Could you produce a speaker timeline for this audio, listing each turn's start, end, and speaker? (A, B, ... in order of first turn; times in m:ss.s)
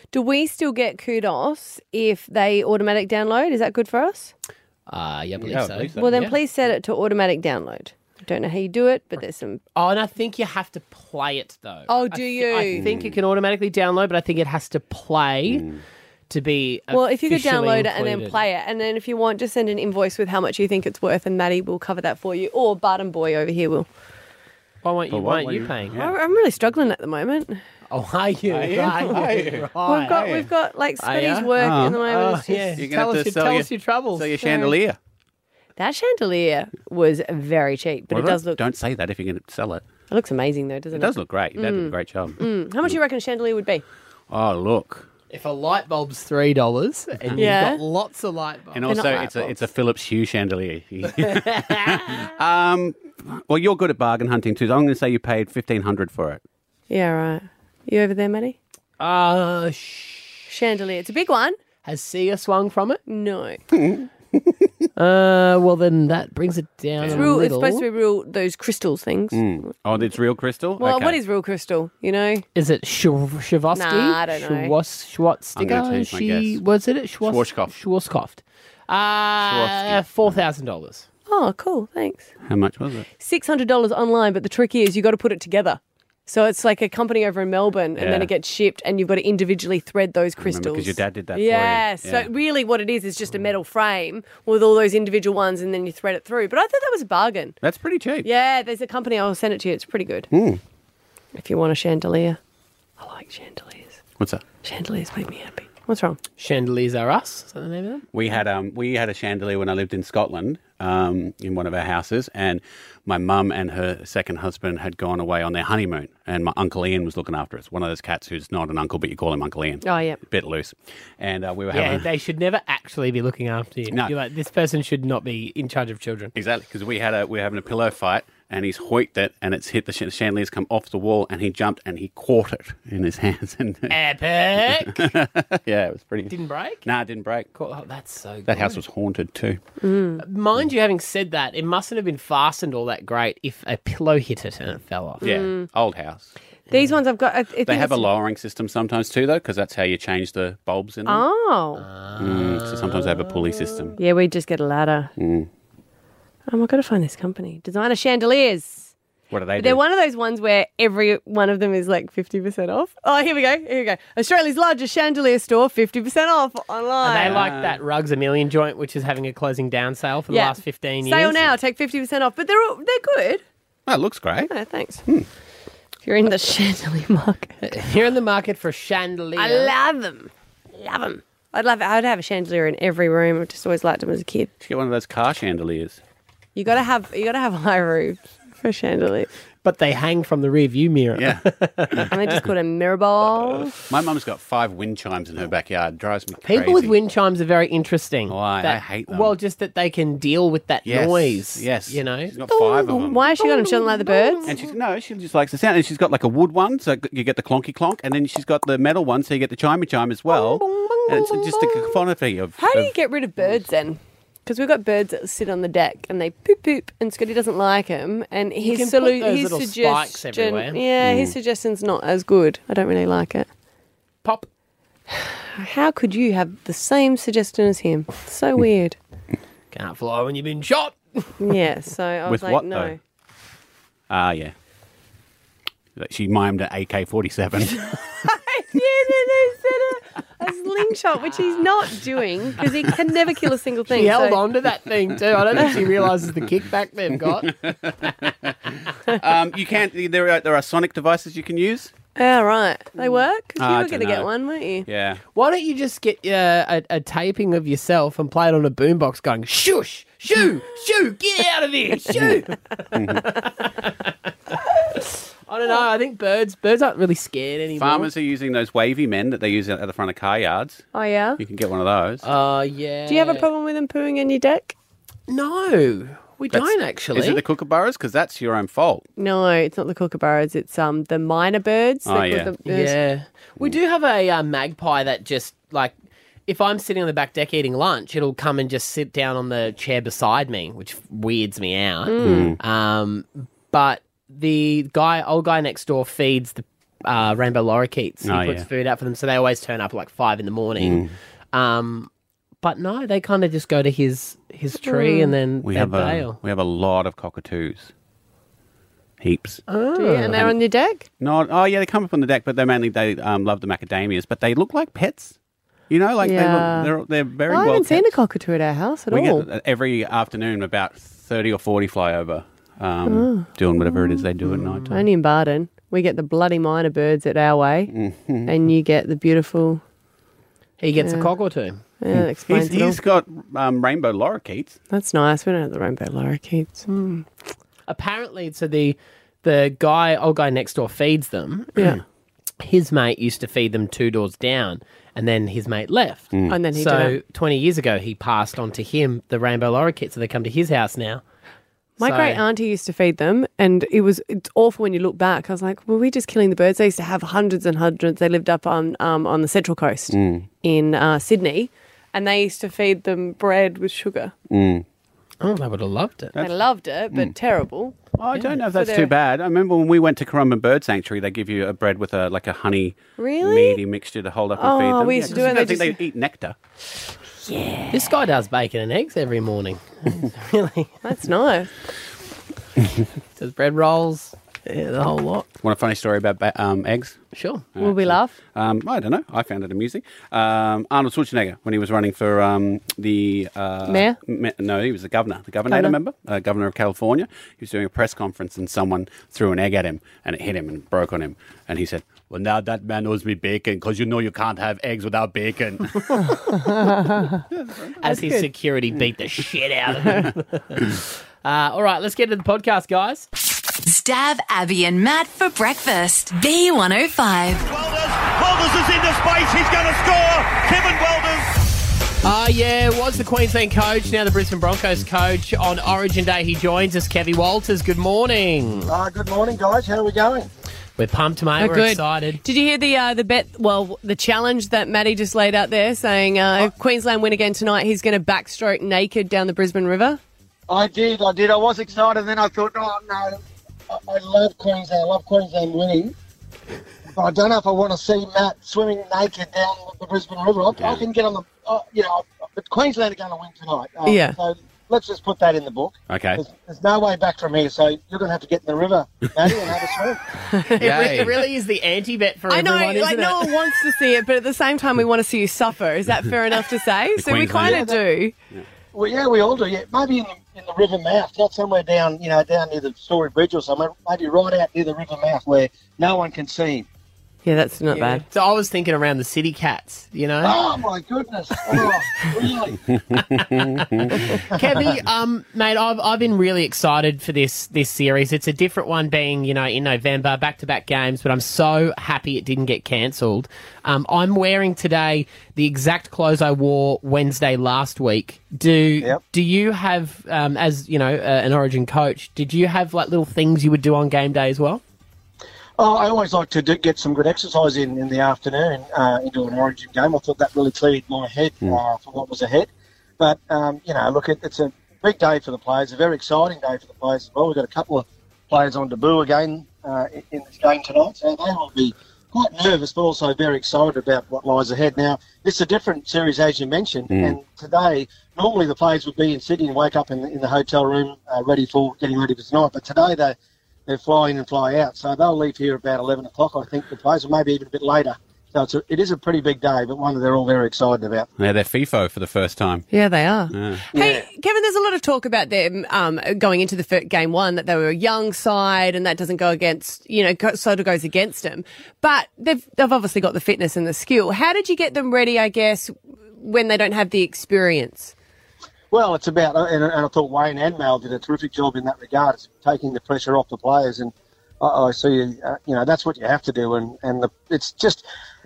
0:00.1-0:04.3 A
0:04.9-0:06.3 B
0:05.4-0:06.3 C
0:06.0-0:09.6 A
0:09.7-0:15.6 B
0:11.9-0:12.9 A
0:12.7-0:13.2 C
0:15.5-0:15.8 C
0:16.3-0:18.4 B
0:16.9-0:23.9 A
0:24.8-0:26.0 B
0:25.1-0:26.1 C
0:25.9-0:27.6 A
0:27.9-0:30.4 B
0:28.5-0:30.4 C
0:29.8-0:32.7 A
0:31.0-0:34.3 B
0:31.6-0:32.0 C
0:32.8-0:35.0 C
0:34.4-0:34.7 A
0:35.8-0:38.6 A
0:38.1-0:39.8 C
0:40.1-0:43.8 A
0:40.9-0:42.9 C
0:44.3-0:45.0 C
0:45.3-0:49.1 B
0:47.2-0:47.5 C
0:47.4-0:47.8 A
0:48.7-0:56.4 C
0:48.9-0:49.6 A
0:51.0-0:52.3 B
0:56.9-0:58.6 A
0:59.0-1:00.5 B
1:00.5-1:01.6 A
1:01.8-1:03.0 B
1:03.1-1:03.6 A
1:03.7-1:04.5 C
1:05.0-1:07.8 B
1:07.0-1:07.3 C
1:07.1-1:09.4 A
1:09.3-1:11.2 C
1:10.8-1:12.4 A
1:12.5-1:21.0 B
1:13.7-1:14.7 A
1:15.6-1:16.6 C
1:17.2-1:17.7 C
1:19.4-1:20.4 C
1:21.3-1:22.3 A
1:22.5-1:23.1 C
1:23.2-1:37.6 A
1:28.0-1:28.3 C
1:30.4-1:32.3 C
1:37.6-1:38.3 C
1:38.2-1:40.3 A
1:40.3-1:40.6 C
1:41.3-1:42.4 A
1:43.0-1:44.0 A
1:44.6-1:46.2 A
1:46.4-1:48.1 B
1:48.1-2:02.0 C
1:59.8-2:00.2 A
2:01.7-2:06.3 B
2:06.4-2:14.0 C
2:13.9-2:15.1 B
2:14.6-2:17.5 C
2:16.3-2:16.8 B
2:17.5-2:18.8 B
2:18.4-2:19.6 C
2:19.8-2:20.2 A
2:20.2-2:25.2 B
2:25.2-2:25.7 A
2:25.2-2:26.3 C
2:26.7-2:28.1 A
2:27.6-2:31.2 C
2:31.0-2:31.8 A
2:31.8-2:33.9 B
2:32.2-2:34.0 C
2:34.0-2:35.1 A
2:35.2-2:35.5 C
2:36.5-2:38.9 A
2:39.3-2:39.8 C
2:39.6-2:47.4 A
2:47.0-2:51.5 B
2:47.2-2:47.8 C
2:50.3-2:53.4 A
2:53.9-2:54.5 C
2:54.5-2:55.0 A
2:56.0-2:57.5 A
2:57.6-2:59.7 B
2:59.4-3:04.5 A
3:04.6-3:06.0 C
3:06.6-3:09.3 A
3:09.6-3:12.2 B
3:11.1-3:11.4 C
3:12.1-3:13.7 A
3:13.4-3:17.0 C
3:16.4-3:24.6 B
3:18.3-3:19.4 C
3:20.8-3:23.2 C
3:22.5-3:24.5 A
3:24.5-3:32.9 C
3:30.3-3:31.6 B
3:32.6-3:43.5 A
3:38.6-3:40.8 B
3:41.0-3:41.3 C
3:45.1-3:49.0 A
3:49.7-3:51.4 B
3:51.4-3:53.0 A
3:52.2-3:52.9 C
3:54.1-3:54.5 C
3:56.0-3:57.9 C
3:58.0-4:04.4 A
4:03.9-4:08.3 B
4:07.6-4:07.9 C
4:09.1-4:11.9 C
4:12.2-4:14.8 A
4:13.6-4:14.3 C
4:14.8-4:15.2 C
4:15.3-4:28.1 B
4:22.9-4:23.2 C
4:27.8-4:30.8 C
4:30.9-4:31.4 A
4:31.4-4:32.2 C
4:32.2-4:33.5 B
4:33.1-4:34.7 A
4:35.3-4:37.4 B
4:36.5-4:39.0 C
4:39.2-4:43.0 A
4:42.1-4:42.5 C
4:42.6-4:45.9 B
4:46.4-5:02.1 B
4:52.1-4:52.6 A
4:52.2-4:52.6 C
4:58.2-4:58.7 C
5:00.8-5:01.1 C
5:02.6-5:06.4 B
5:04.8-5:05.3 A
5:05.6-5:07.9 C
5:09.2-5:09.6 C
5:09.7-5:10.5 B
5:10.0-5:11.0 A
5:11.2-5:15.4 C
5:15.9-5:18.1 C
5:16.2-5:16.9 A
5:17.5-5:19.4 A
5:19.1-5:24.9 C
5:23.0-5:24.2 A
5:24.4-5:25.0 B
5:24.9-5:27.9 A
5:27.9-5:28.5 C
5:28.4-5:29.8 A
5:30.8-5:31.8 B
5:31.0-5:31.3 A
5:32.0-5:33.0 A
5:32.1-5:34.8 C
5:34.9-5:37.2 A
5:37.9-5:41.8 B
5:42.6-5:51.2 B
5:46.5-5:47.2 A
5:52.0-6:04.3 A
5:52.0-5:52.4 B
6:00.1-6:00.5 C
6:04.5-6:04.8 C
6:05.4-6:06.3 B
6:06.4-6:07.9 A
6:08.1-6:16.6 C
6:08.7-6:09.1 A
6:13.2-6:13.8 A
6:14.6-6:16.0 A
6:17.4-6:17.9 A
6:17.9-6:21.0 B
6:21.0-6:21.7 A
6:23.4-6:25.5 B
6:25.6-6:27.2 C
6:27.3-6:27.6 B
6:27.7-6:46.2 C
6:27.8-6:28.4 A
6:33.9-6:34.2 A
6:35.7-6:35.9 A
6:46.2-6:47.4 A
6:47.5-6:47.9 C
6:48.0-6:53.2 B
6:48.0-6:48.5 A
6:53.8-6:57.6 D
6:57.7-7:01.5 E
7:02.2-7:08.9 B
7:08.8-7:10.5 F
7:11.0-7:12.4 B
7:11.6-7:20.2 A
7:20.7-7:26.1 F
7:27.1-7:40.2 F
7:30.8-7:31.0 C
7:34.0-7:34.4 A
7:36.1-7:36.4 C
7:40.5-7:40.9 A
7:40.8-7:43.5 B
7:40.8-7:41.4 C
7:42.5-7:48.3 A
7:47.2-7:47.8 C
7:47.6-7:48.0 F
7:48.9-7:56.9 F
7:57.4-7:58.2 A
7:57.9-8:00.6 B
8:00.4-8:02.8 F
8:03.1-8:04.2 C
8:04.5-8:24.8 B
8:25.8-8:53.4 F
8:47.1-8:47.4 C
8:53.9-9:01.3 F
9:01.4-9:02.9 C
9:02.9-9:18.1 A
9:03.5-9:03.8 C
9:03.9-9:04.2 F
9:18.9-9:28.0 F